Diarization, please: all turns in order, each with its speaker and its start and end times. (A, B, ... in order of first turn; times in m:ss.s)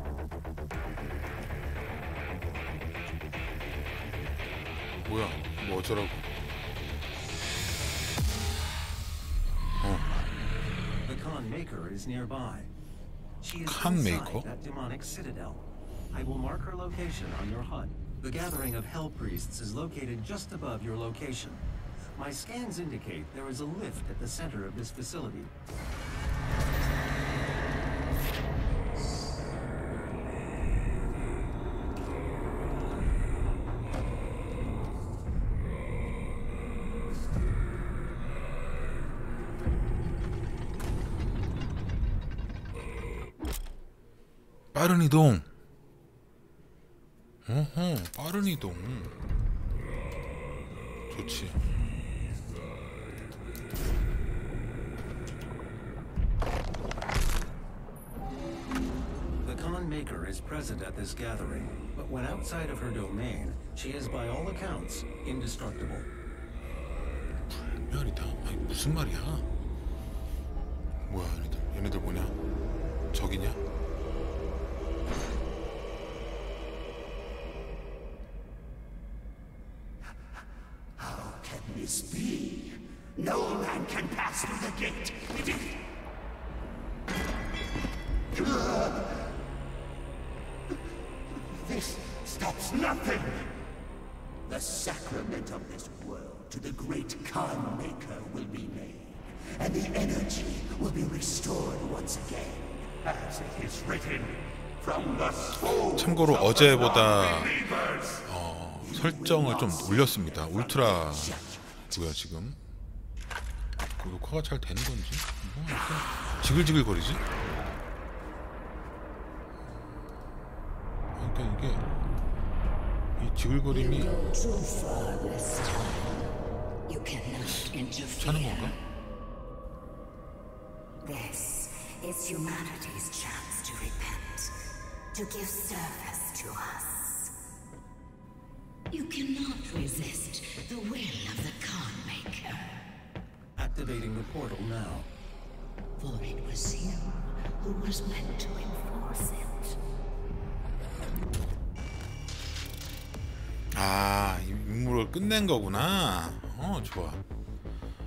0:05.0-0:06.2 A
0:09.8-0:10.1 A
0:11.0-0:12.7 B
0:13.4-0:25.5 B
0:13.6-0:14.5 A
0:44.7-0:45.5 A
0:47.4-0:49.2 A
0:51.1-0:51.6 A
0:59.4-1:06.1 B
1:07.7-1:09.5 A
1:11.0-1:12.4 A
1:13.1-1:13.6 A
1:21.0-1:25.6 C
1:28.6-1:28.9 C
1:31.6-1:33.5 C
1:34.5-1:44.4 C
1:45.0-1:45.3 C
1:45.7-1:52.6 A
1:54.0-1:57.2 A
2:01.2-2:01.9 A
2:03.2-2:04.2 A
2:03.7-2:06.3 D
2:06.9-2:08.7 D
2:08.1-2:08.8 A
2:11.0-2:17.3 D
2:18.9-2:22.8 D
2:23.6-2:25.1 B
2:26.0-2:29.8 D
2:33.7-2:37.2 A